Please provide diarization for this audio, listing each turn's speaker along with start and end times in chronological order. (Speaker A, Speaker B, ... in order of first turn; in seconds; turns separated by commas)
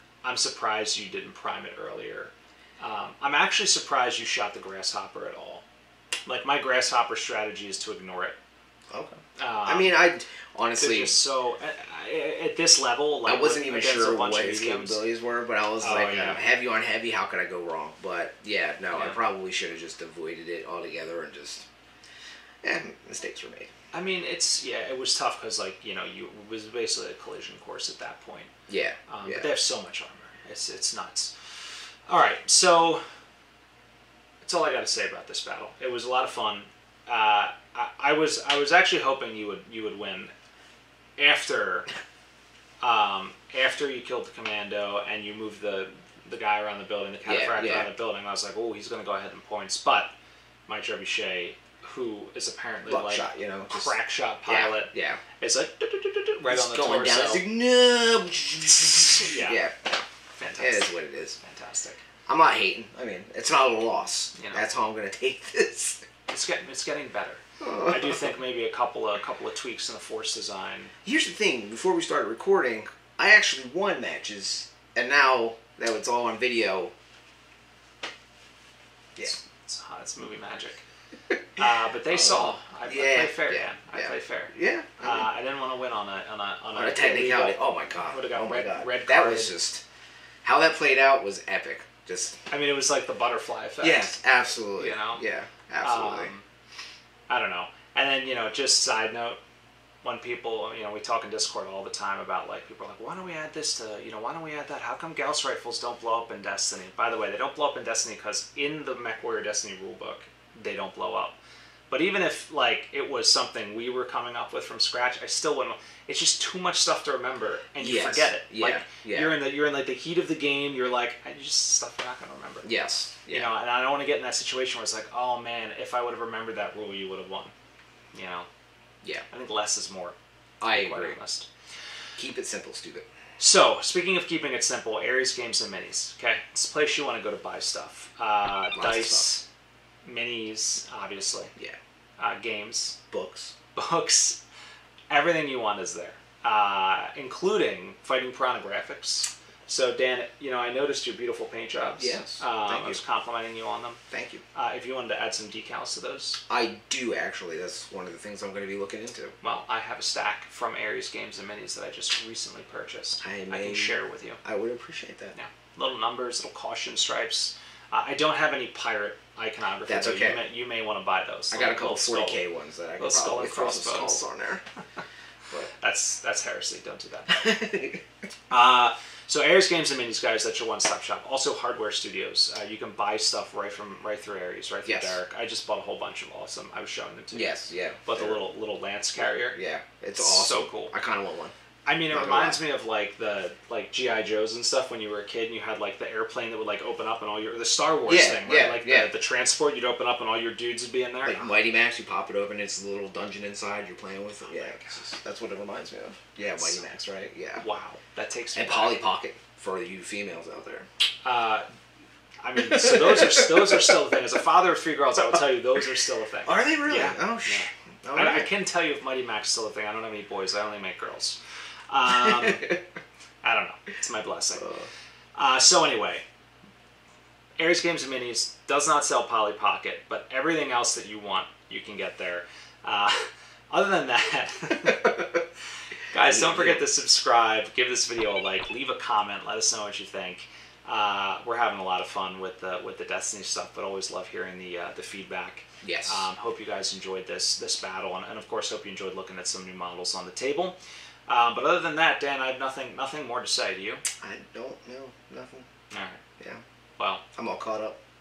Speaker A: 0.2-5.7, Speaker A: 6.3-8.4, Speaker B: 8.9-11.2, Speaker A: 9.4-9.9, Speaker A: 10.8-15.0, Speaker B: 13.3-21.7, Speaker A: 15.8-16.4, Speaker A: 18.9-19.2, Speaker B: 22.6-23.7, Speaker A: 23.9-28.5, Speaker B: 28.7-29.5, Speaker A: 29.1-33.1, Speaker A: 34.4-40.3, Speaker A: 41.2-41.9, Speaker A: 42.8-50.1, Speaker B: 47.3-47.9, Speaker A: 50.7-57.5, Speaker B: 52.9-54.0, Speaker B: 54.5-55.2, Speaker B: 56.5-60.0, Speaker A: 59.0-59.6, Speaker A: 60.4-62.0, Speaker B: 60.6-61.4, Speaker B: 62.3-66.1, Speaker A: 64.3-64.7, Speaker A: 66.3-70.9, Speaker B: 67.6-68.4, Speaker B: 71.0-76.9, Speaker A: 79.2-80.8, Speaker A: 81.6-89.5, Speaker B: 82.1-85.3, Speaker B: 86.7-89.8, Speaker B: 90.4-92.4, Speaker A: 92.5-94.1, Speaker B: 93.8-96.3, Speaker A: 94.8-95.2, Speaker A: 95.8-96.5, Speaker A: 97.3-99.4, Speaker A: 100.0-111.4, Speaker A: 111.9-122.7, Speaker B: 117.8-119.4, Speaker B: 122.6-123.5, Speaker A: 123.3-127.5, Speaker A: 128.1-128.5, Speaker A: 129.3-130.2, Speaker B: 130.6-131.2, Speaker A: 130.7-131.5, Speaker B: 132.2-133.1, Speaker A: 133.4-139.4, Speaker B: 138.7-139.3, Speaker A: 140.0-141.5, Speaker A: 142.2-143.0, Speaker B: 143.1-143.5, Speaker A: 143.8-144.4, Speaker A: 145.1-154.0, Speaker B: 152.0-153.0, Speaker B: 154.1-154.4, Speaker A: 154.5-156.4, Speaker B: 156.5-159.4, Speaker A: 159.4-164.4, Speaker B: 163.2-165.3, Speaker A: 165.3-172.4, Speaker B: 169.9-170.5, Speaker B: 171.5-174.6, Speaker A: 173.0-174.3, Speaker A: 175.7-177.5, Speaker B: 177.3-178.0, Speaker A: 178.5-189.6, Speaker B: 184.8-185.2, Speaker B: 187.3-188.4, Speaker B: 189.6-191.5, Speaker A: 190.2-190.9, Speaker A: 191.9-201.5, Speaker B: 192.1-192.6, Speaker B: 198.1-199.1, Speaker B: 201.2-207.6, Speaker A: 204.4-205.0, Speaker A: 206.6-206.9, Speaker A: 207.6-209.0, Speaker B: 208.5-210.9, Speaker A: 211.2-211.7, Speaker A: 212.4-221.4, Speaker B: 212.6-213.9, Speaker B: 216.5-218.5, Speaker A: 221.9-222.8, Speaker B: 222.1-222.8, Speaker A: 223.4-224.7, Speaker B: 224.6-224.9, Speaker A: 225.3-226.3, Speaker A: 227.6-235.4, Speaker A: 236.1-254.0, Speaker B: 236.3-236.8, Speaker B: 245.8-246.3, Speaker B: 254.2-255.7, Speaker A: 255.9-256.2, Speaker A: 257.0-257.2, Speaker B: 257.3-258.0